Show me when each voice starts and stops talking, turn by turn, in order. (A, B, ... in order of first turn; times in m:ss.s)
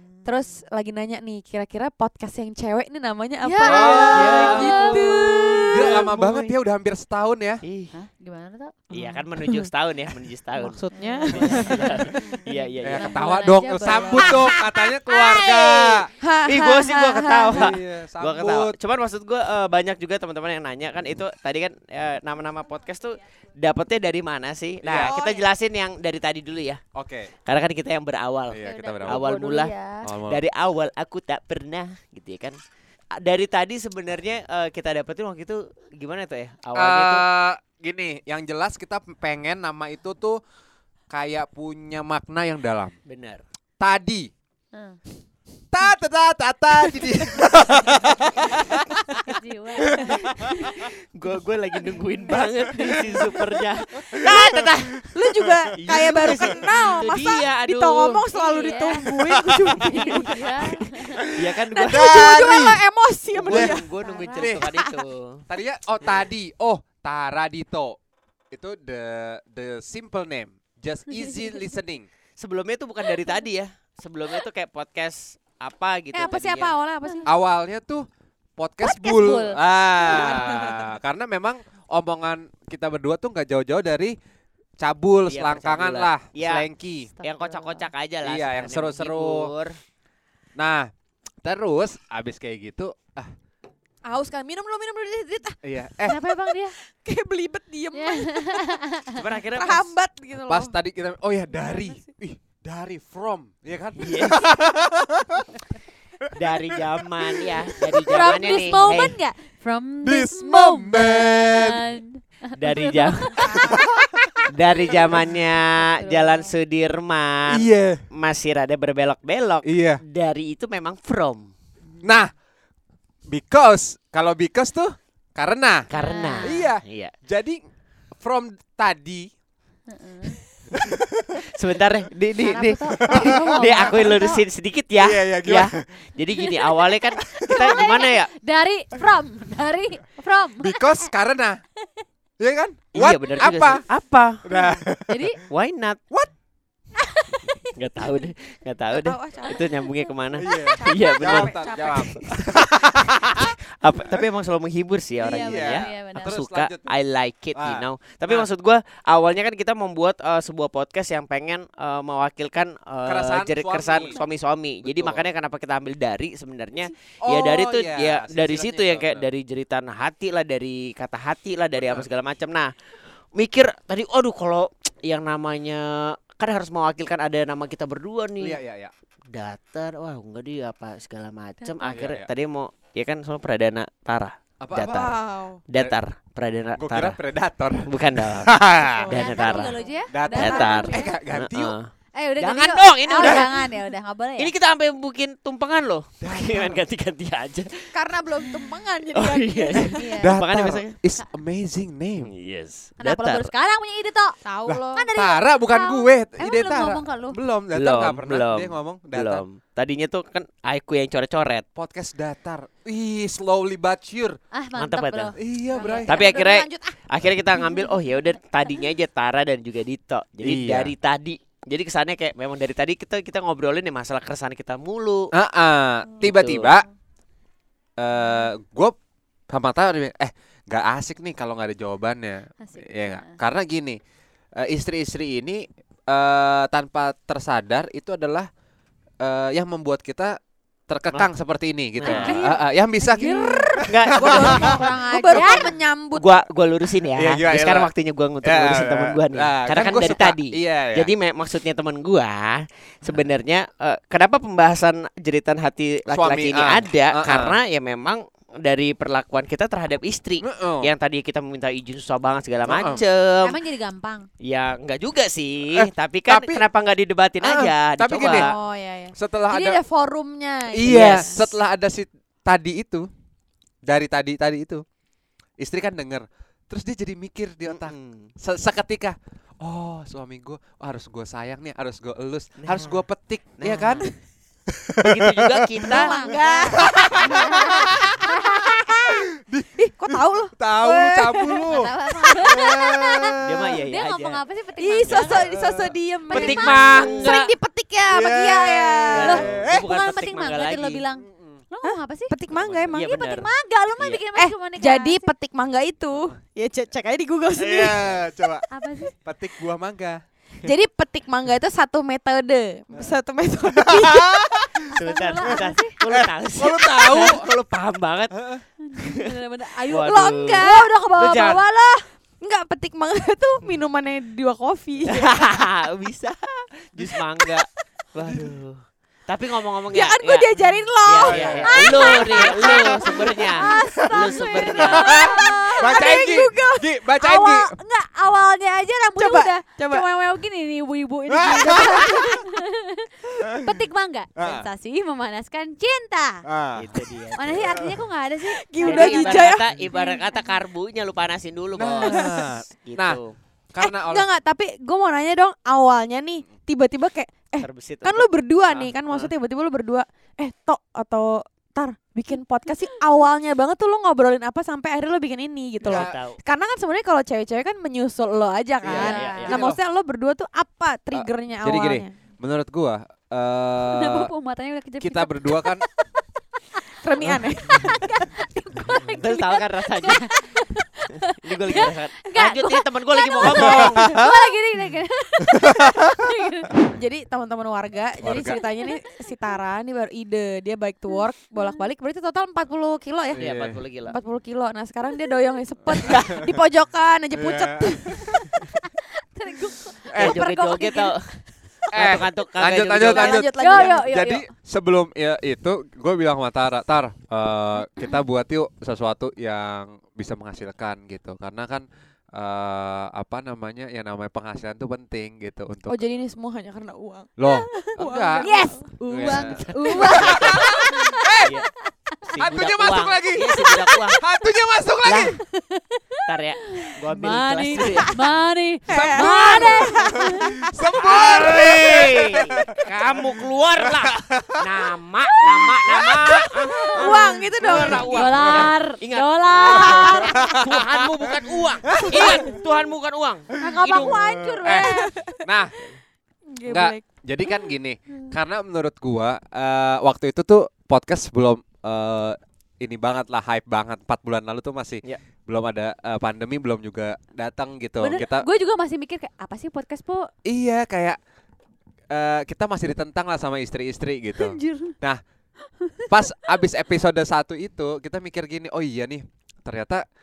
0:00.2-0:06.4 A
0:03.4-0:05.9 B
0:03.6-0:07.6 C
0:04.1-0:05.3 D
0:05.8-0:06.1 D
0:07.6-0:07.9 D
0:07.9-0:09.2 B
0:08.9-0:13.2 D
0:10.6-0:12.0 A
0:10.6-0:12.1 B
0:12.7-0:14.6 B
0:12.8-0:16.1 C
0:13.9-0:26.8 D
0:16.2-0:17.7 A
0:17.5-0:18.8 C
0:24.8-0:25.2 C
0:26.9-0:27.3 C
0:27.4-0:29.7 D
0:28.5-0:29.3 C
0:28.6-0:30.1 B
0:30.0-0:30.4 C
0:30.2-0:32.6 D
0:33.1-0:37.3 D
0:36.7-0:40.4 C
0:41.1-0:42.9 C
0:43.1-0:43.4 D
0:43.8-0:44.3 C
0:44.7-0:45.0 B
0:45.7-0:50.6 C
0:49.2-0:50.0 B
0:50.1-0:55.0 D
0:54.1-1:00.3 A
0:55.7-0:58.2 D
0:56.3-0:56.6 C
0:58.3-0:59.1 B
0:59.3-0:59.7 C
0:59.8-1:00.4 D
0:59.9-1:01.2 B
1:01.3-1:02.4 D
1:01.7-1:03.8 A
1:01.9-1:02.8 C
1:03.3-1:05.4 D
1:03.5-1:03.8 C
1:04.0-1:04.6 B
1:04.4-1:04.7 C
1:05.5-1:08.0 C
1:08.5-1:12.1 C
1:12.4-1:16.8 D
1:16.1-1:17.3 A
1:17.2-1:18.0 C
1:18.6-1:24.2 C
1:18.8-1:19.6 B
1:20.0-1:20.9 A
1:24.8-1:27.1 C
1:25.3-1:26.7 D
1:27.1-1:27.9 B
1:27.2-1:29.7 D
1:28.2-1:29.5 C
1:30.6-1:30.9 C
1:31.4-1:33.3 C
1:34.0-1:36.2 A
1:35.6-1:36.2 C
1:36.0-1:36.8 B
1:36.7-1:38.8 A
1:37.9-1:39.2 B
1:39.1-1:39.9 D
1:39.5-1:40.7 A
1:40.5-1:45.4 C
1:41.5-1:42.0 A
1:44.0-1:44.5 D
1:46.4-1:49.2 D
1:48.1-1:53.9 B
1:50.0-1:51.8 C
1:52.6-1:53.4 D
1:53.5-1:53.8 C
1:54.5-2:01.5 D
1:55.8-1:56.5 B
1:57.5-1:58.0 C
1:59.6-2:00.0 C
2:02.0-2:02.3 C
2:03.3-2:05.9 C
2:05.9-2:07.1 D
2:06.0-2:06.7 B
2:06.4-2:07.6 C
2:08.2-2:09.3 C
2:09.9-2:10.4 B
2:10.7-2:18.3 D
2:10.9-2:11.4 C
2:12.4-2:14.4 B
2:13.1-2:14.2 C
2:15.0-2:15.9 C
2:17.3-2:17.8 C
2:17.5-2:21.1 B
2:20.6-2:21.6 C
2:22.4-2:23.8 C
2:22.9-2:24.4 D
2:24.4-2:25.4 C
2:25.1-2:25.4 B
2:25.5-2:26.0 D
2:27.7-2:52.7 D
2:28.9-2:29.8 A
2:30.4-2:33.5 C
2:30.5-2:32.1 A
2:35.2-2:36.4 B
2:35.3-2:36.9 C
2:37.5-2:38.5 C
2:43.0-2:44.2 C
2:44.8-2:45.3 C
2:47.2-2:49.3 C
2:51.8-2:52.0 C
2:53.3-2:58.6 D
2:58.4-2:58.9 C
2:59.3-3:05.1 D
3:01.6-3:02.0 B
3:01.9-3:02.3 C
3:04.6-3:05.2 C
3:04.9-3:05.6 A
3:05.7-3:07.2 D
3:06.8-3:09.1 C
3:07.9-3:08.6 D
3:08.8-3:10.0 A
3:09.1-3:09.8 D
3:09.1-3:11.2 B
3:10.1-3:11.8 C
3:10.3-3:13.6 D
3:12.1-3:14.5 B
3:13.2-3:13.5 A
3:14.4-3:17.7 D
3:16.2-3:16.8 C
3:17.9-3:20.2 A
3:19.1-3:20.9 D
3:19.8-3:20.3 B
3:20.2-3:22.3 C
3:22.2-3:23.5 D
3:23.0-3:24.4 B
3:24.4-3:25.1 A
3:24.7-3:29.4 C
3:24.9-3:27.4 B
3:27.7-3:31.6 D
3:31.7-3:34.4 C
3:34.5-3:36.3 B
3:34.8-3:35.4 D
3:35.4-3:36.2 C
3:35.7-3:37.0 A
3:36.0-3:45.3 D
3:40.4-3:40.9 C
3:45.3-3:46.8 C
3:46.2-3:46.8 D
3:48.0-3:48.9 C
3:49.5-3:54.0 C
3:52.6-3:53.4 B
3:54.6-3:58.5 C
3:59.2-4:00.3 C
4:00.9-4:04.8 C
4:02.0-4:02.4 D
4:02.0-4:03.7 B
4:02.1-4:02.4 A
4:03.2-4:03.6 A
4:03.8-4:04.8 D
4:04.1-4:06.2 A
4:04.4-4:05.7 B
4:05.3-4:23.6 D
4:07.2-4:07.9 C
4:08.4-4:11.1 C
4:16.1-4:17.6 C
4:20.4-4:20.9 C
4:22.6-4:23.0 C
4:23.4-4:24.3 B
4:24.4-4:28.5 D
4:25.7-4:26.6 C
4:27.4-4:28.5 C
4:28.3-4:31.4 A
4:29.2-4:29.8 C
4:30.7-4:33.1 C
4:30.8-4:31.5 D
4:33.8-4:34.8 C
4:35.6-4:44.1 C
4:37.7-4:38.3 D
4:42.6-4:43.0 D
4:43.6-4:44.1 D
4:44.7-4:45.8 C
4:45.0-4:46.2 D
4:45.9-4:49.2 A
4:46.0-4:48.4 B
4:46.8-4:48.2 C
4:48.8-4:53.4 C
4:49.8-4:51.6 A
4:51.6-4:53.0 B
4:52.2-4:52.8 A
4:53.4-4:54.4 D
4:53.9-4:55.5 B
4:54.8-4:59.5 A
4:55.1-4:55.4 D
4:55.3-4:57.1 C
4:56.3-4:57.3 B
4:56.3-4:57.5 D
4:58.1-4:59.8 C
4:59.1-5:01.0 D
4:59.2-5:02.3 B
5:01.2-5:01.6 C
5:01.8-5:03.1 A
5:02.5-5:04.2 D
5:03.0-5:05.3 B
5:04.4-5:08.0 A
5:07.6-5:08.6 C
5:08.7-5:09.1 B
5:09.2-5:10.2 C
5:10.6-5:14.5 A
5:13.8-5:14.8 C
5:14.9-5:16.0 B
5:15.0-5:18.4 D
5:16.6-5:17.5 C
5:18.3-5:18.6 C
5:18.8-5:22.1 B
5:19.0-5:19.3 D
5:19.8-5:21.6 D
5:19.9-5:20.9 A
5:22.4-5:25.6 A
5:25.1-5:30.5 D
5:29.9-5:37.8 A
5:31.0-5:35.3 D
5:31.2-5:32.8 C
5:34.8-5:37.7 C
5:37.3-5:46.4 B
5:39.1-5:40.1 A
5:41.3-5:42.4 C
5:41.6-5:42.4 A
5:43.4-5:43.7 C
5:44.4-5:44.7 C
5:46.4-5:46.8 C
5:46.7-5:47.7 D
5:47.4-5:50.2 B
5:47.7-5:48.0 C
5:48.4-5:49.6 A
5:48.8-5:52.2 D
5:51.8-5:53.2 C
5:52.0-5:52.6 A
5:52.8-5:53.4 D
5:53.7-5:54.2 C
5:53.8-6:12.1 A
5:57.6-5:59.3 D
6:05.8-6:06.4 D
6:05.8-6:06.2 C
6:08.8-6:09.6 D
6:08.9-6:09.8 C
6:08.9-6:09.5 B
6:11.1-6:14.3 C
6:13.8-6:15.8 B
6:15.0-6:15.8 C
6:17.0-6:18.5 A
6:17.6-6:26.8 B
6:19.2-6:20.4 D
6:21.4-6:24.1 D
6:25.6-6:26.1 C
6:26.9-6:33.4 A
6:28.2-6:28.6 C
6:28.4-6:29.4 B
6:31.1-6:31.8 B
6:33.3-6:33.8 C
6:33.3-6:34.2 D
6:34.1-6:38.3 A
6:37.4-6:38.4 C
6:38.3-6:41.1 B
6:40.1-6:40.4 C
6:40.2-6:41.2 D
6:41.9-6:56.0 C
6:41.9-6:43.4 D
6:43.0-6:44.1 A
6:43.6-6:44.5 B
6:55.9-7:01.1 A
6:57.4-7:01.5 C
6:58.4-7:01.2 B
6:59.2-7:00.6 D
7:01.4-7:01.7 D
7:02.3-7:04.2 D
7:02.3-7:05.4 C
7:05.0-7:05.4 D
7:05.7-7:06.0 B
7:06.2-7:08.2 D
7:06.8-7:10.6 B
7:08.9-7:10.4 A
7:08.9-7:13.3 C
7:11.0-7:24.2 D
7:13.8-7:14.6 C
7:15.6-7:16.1 C
7:16.6-7:18.7 A
7:17.0-7:17.2 B
7:17.7-7:18.0 C
7:17.9-7:20.3 B
7:19.8-7:20.5 C
7:21.9-7:22.5 C
7:22.2-7:22.6 A
7:23.6-7:25.4 A
7:23.6-7:25.7 C
7:23.9-7:25.0 B
7:26.5-7:27.0 A
7:26.6-7:38.5 C
7:38.0-7:40.3 B
7:40.4-7:41.2 C
7:42.1-7:45.2 C
7:44.3-7:45.0 B
7:45.8-7:46.1 B
7:46.1-7:50.0 C